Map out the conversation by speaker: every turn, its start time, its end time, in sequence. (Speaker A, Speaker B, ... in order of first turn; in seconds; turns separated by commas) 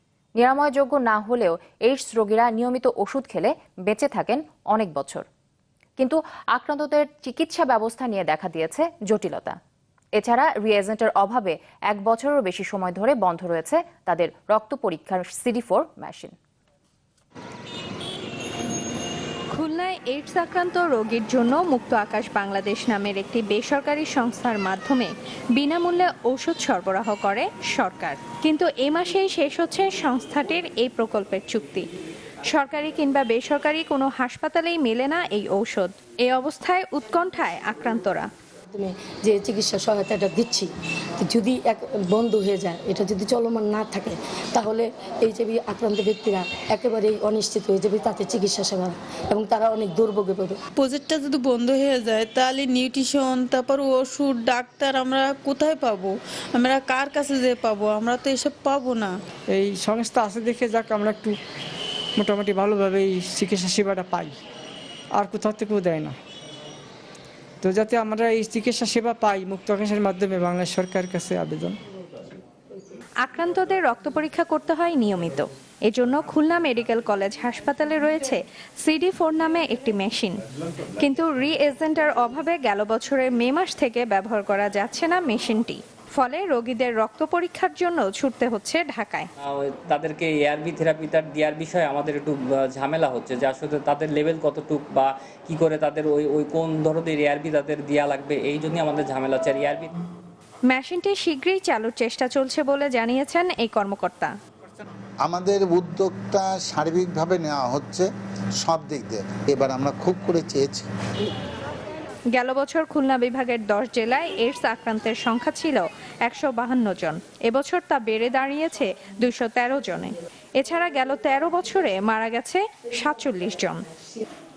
Speaker A: 0.4-5.2, Speaker A: 6.0-9.6, Speaker A: 10.2-16.3, Speaker B: 19.5-31.9, Speaker B: 32.5-38.3, Speaker C: 38.7-50.6, Speaker D: 50.8-59.1, Speaker E: 59.5-61.4, Speaker E: 62.2-64.3, Speaker E: 65.2-66.2, Speaker E: 67.6-71.8, Speaker B: 73.2-80.4, Speaker B: 81.0-89.3, Speaker F: 89.4-99.9, Speaker B: 100.7-104.3, Speaker G: 105.2-108.1, Speaker G: 108.6-110.8, Speaker B: 112.4-123.8